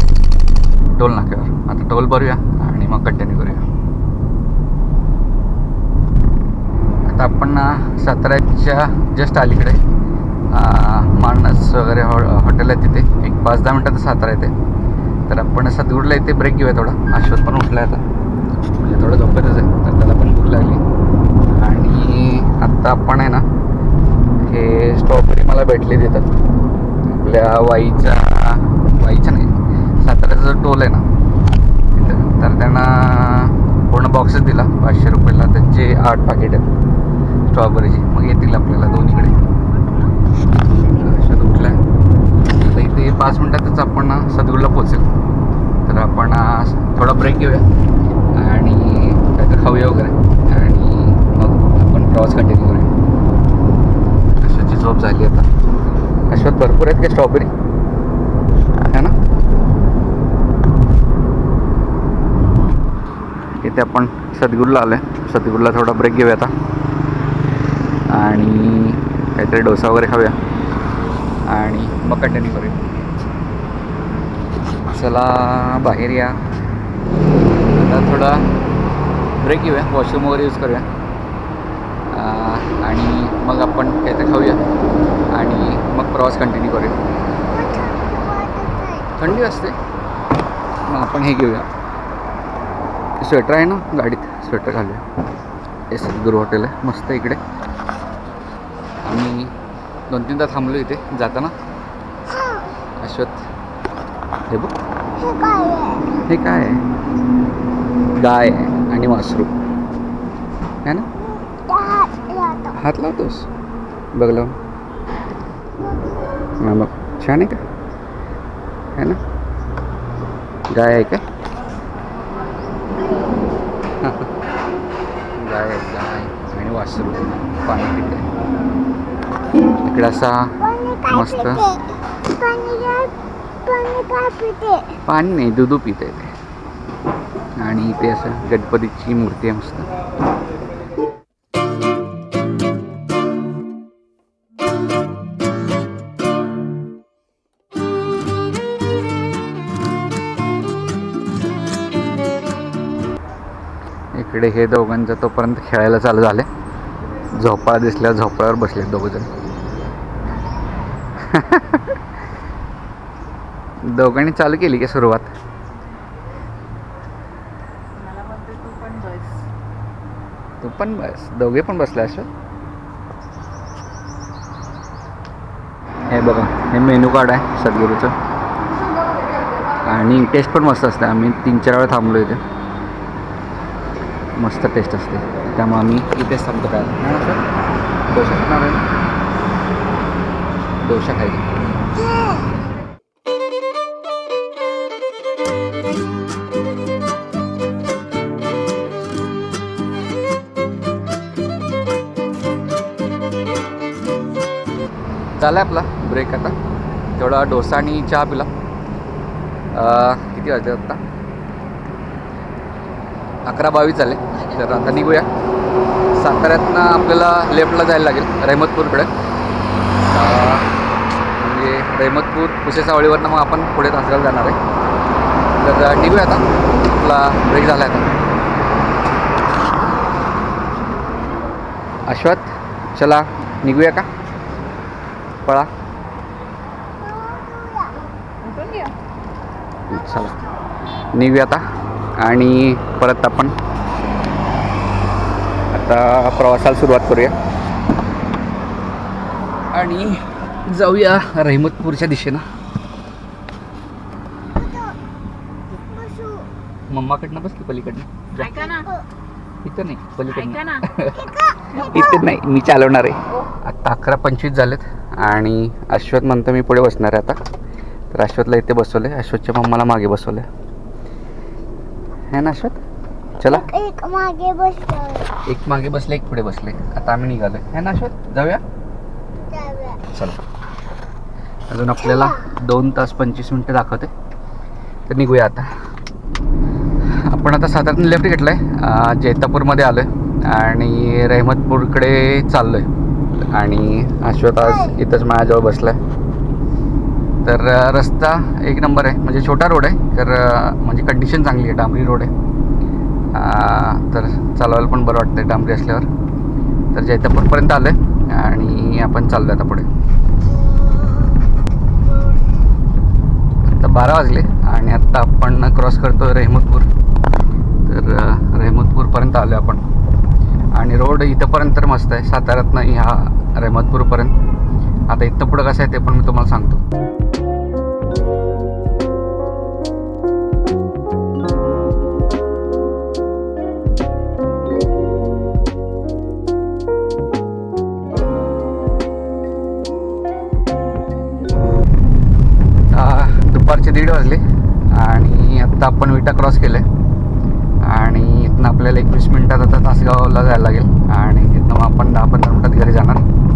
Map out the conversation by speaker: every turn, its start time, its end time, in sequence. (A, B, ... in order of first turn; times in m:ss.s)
0:00.9-0:03.7 A
0:07.1-0:09.8 A
0:10.5-0:14.5 A
0:15.3-0:18.0 A
0:18.8-0:20.8 A
0:21.5-0:23.4 A
0:24.4-0:26.3 A
0:27.0-0:31.0 A
0:31.9-0:36.7 A
0:37.5-0:39.4 A
0:40.9-0:41.8 A
0:42.5-0:45.1 A
0:45.8-0:47.6 A
0:48.3-0:52.9 A
0:54.4-0:55.5 A
0:56.3-0:57.5 A
0:58.8-0:59.2 A
1:03.6-1:06.5 A
1:08.1-1:10.4 A
1:11.5-1:12.8 A
1:14.9-1:16.4 A
1:17.7-1:18.5 A
1:19.4-1:20.9 A
1:22.1-1:24.6 A
1:25.3-1:27.0 A
1:27.5-1:29.1 B
1:29.2-1:29.8 A
1:30.9-1:31.7 A
1:33.2-1:35.0 A
1:35.9-1:37.4 A
1:39.0-1:39.5 A
1:40.1-1:41.6 A
1:42.4-1:42.6 B
1:43.0-1:43.5 A
1:44.5-1:44.8 A
1:45.2-1:46.1 B
1:46.2-1:46.8 A
1:48.2-1:49.5 A
1:51.5-1:52.8 B
1:52.7-1:53.5 A
1:54.1-1:54.6 A
1:56.6-1:57.6 A
1:59.0-1:59.2 A
2:00.7-2:01.2 A
2:04.0-2:04.3 A
2:05.4-2:08.3 A
2:09.8-2:11.7 A
2:10.6-2:15.0 B
2:15.0-2:16.3 A
2:17.6-2:19.9 A
2:34.2-2:36.5 A
2:37.3-2:39.3 A
2:41.2-2:42.0 A
2:43.8-2:45.3 A
2:48.0-2:49.5 C
2:50.6-2:52.3 A
2:56.1-2:58.2 A
2:59.8-3:02.4 A
3:04.4-3:07.4 A
3:08.1-3:08.8 A
3:10.8-3:11.5 A
3:25.4-3:26.6 A
3:27.2-3:28.5 A
3:29.7-3:31.0 A
3:33.4-3:35.3 A
3:36.1-3:39.1 A
3:40.1-3:40.7 A
3:41.4-3:44.6 A
3:45.6-3:48.1 A
3:52.1-3:54.1 A
3:55.4-3:55.7 A
3:57.0-3:58.0 B
3:58.4-3:58.9 C
3:59.9-4:00.4 A
4:01.1-4:01.6 A
4:02.2-4:03.5 A
4:05.7-4:07.4 A
4:09.7-4:12.4 A
4:14.6-4:15.0 B
4:15.7-4:16.5 B
4:16.9-4:18.7 A
4:18.5-4:18.9 C
4:18.7-4:19.1 B
4:19.6-4:27.4 A
4:20.5-4:20.8 C
4:21.1-4:21.8 B
4:28.1-4:30.5 A
4:32.3-4:32.8 A
4:33.4-4:33.7 A
4:33.4-4:35.4 B
4:35.4-4:38.6 A
4:39.5-4:40.0 B
4:40.1-4:40.4 A
4:41.7-4:44.1 A
4:45.1-4:45.7 A
4:47.1-4:52.9 A
4:53.5-4:56.0 A
4:57.4-5:02.3 A
5:03.3-5:06.1 A
5:06.9-5:09.9 A
5:13.7-5:16.9 A
5:17.8-5:19.8 A
5:20.8-5:24.3 A
5:25.1-5:26.8 A
5:42.9-5:46.8 A
5:47.8-5:53.3 A